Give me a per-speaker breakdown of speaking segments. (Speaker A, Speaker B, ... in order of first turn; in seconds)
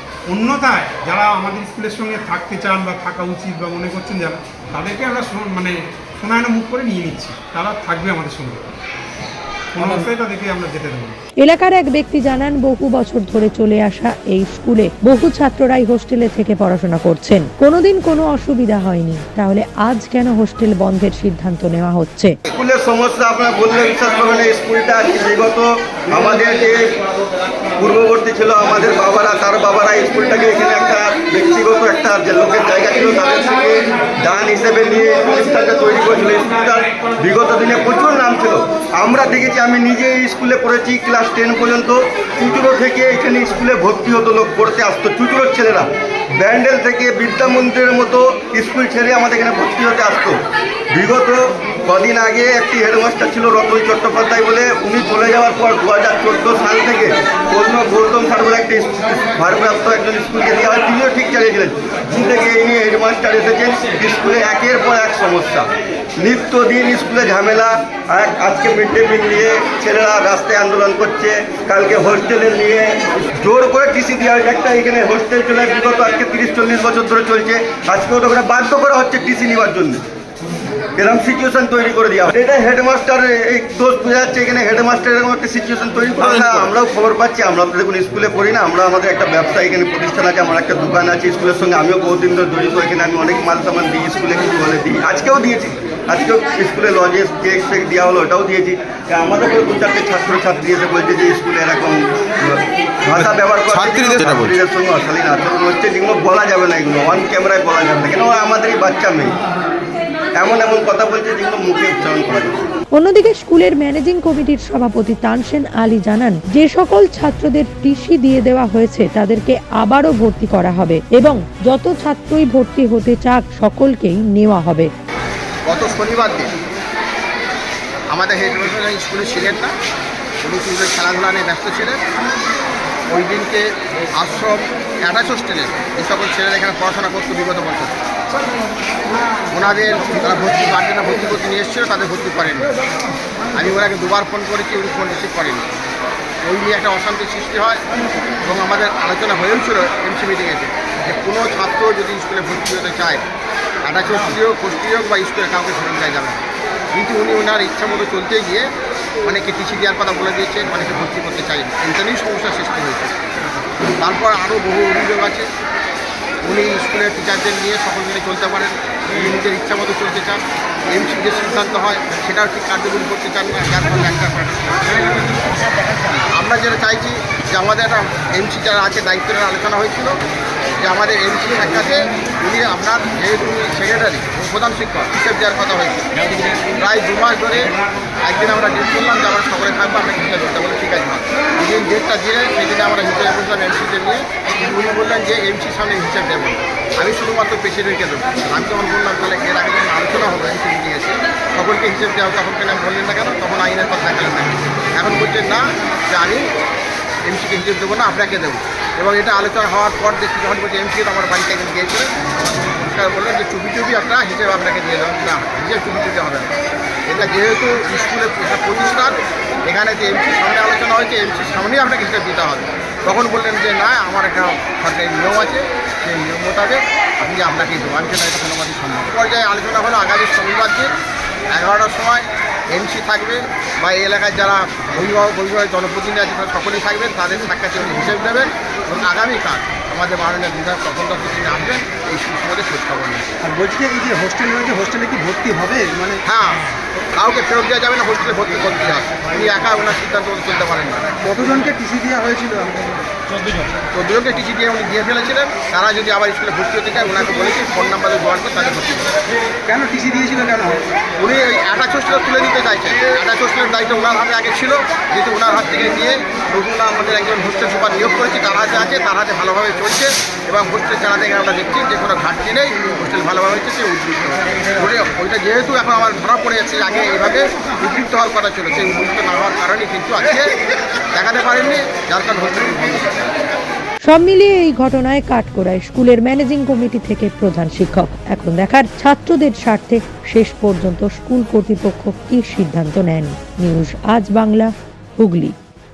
Speaker A: 0.3-8.6, 9.8-11.2
Speaker B: 11.4-22.4, 113.0-124.9, 284.1-295.5
Speaker C: 22.5-26.9, 27.8-50.4, 50.9-65.7, 66.2-80.0, 81.0-109.4, 110.4-112.6
Speaker D: 104.2-104.5, 125.7-126.5, 128.1-129.7, 130.4-132.0, 133.1-133.7, 134.2-138.0, 139.5-142.7, 143.5-145.7, 146.4-147.8, 148.4-153.2, 153.8-156.4, 156.9-158.7, 159.3-163.2, 164.0-165.5, 166.4-175.3, 176.3-180.2, 180.8-187.7, 188.2-206.4, 207.3-216.5, 217.1-230.9, 231.5-243.3, 246.2-251.2, 253.9-259.1, 261.2-280.5, 281.1-283.4
Speaker E: 243.4-246.2, 251.2-252.9, 259.6-260.9